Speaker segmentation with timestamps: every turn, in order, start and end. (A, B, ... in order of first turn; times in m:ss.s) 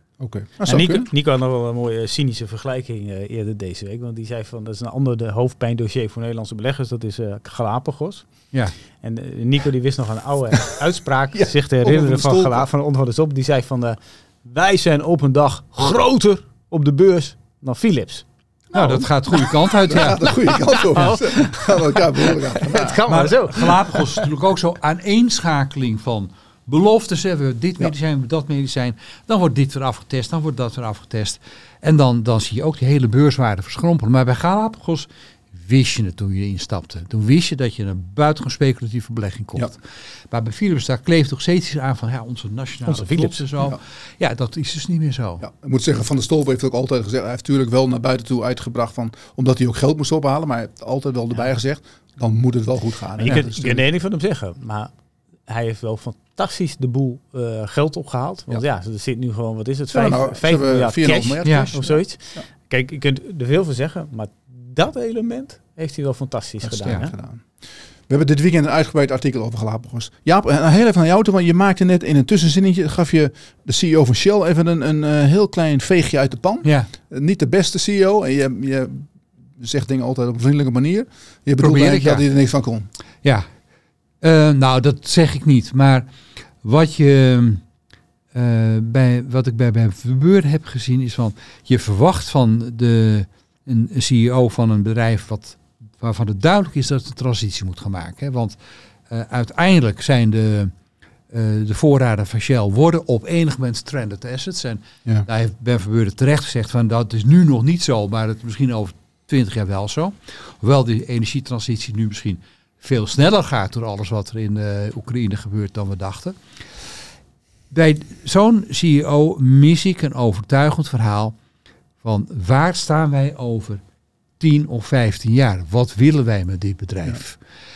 0:00.2-0:01.1 A
0:00.6-0:08.3 B
0:09.0-0:19.0 B
0:11.3-0:12.6 A
0:18.7-0:20.6 C
0:19.9-0:23.0 A
0:20.5-0:24.2 B
0:23.1-0:45.4 C
0:42.8-0:43.5 B
0:45.4-0:53.8 A
0:53.2-0:54.9 B
0:55.5-1:07.1 B
0:59.9-1:02.4 A
1:01.4-1:01.7 C
1:06.6-1:22.9 A
1:16.6-1:16.9 C
1:21.6-1:22.2 C
1:24.2-1:26.1 C
1:26.6-1:27.6 C
1:28.3-1:38.6 C
1:39.1-1:40.7 C
1:41.3-1:56.4 C
1:57.7-2:01.4 C
2:02.0-2:03.8 C
2:04.4-2:07.4 C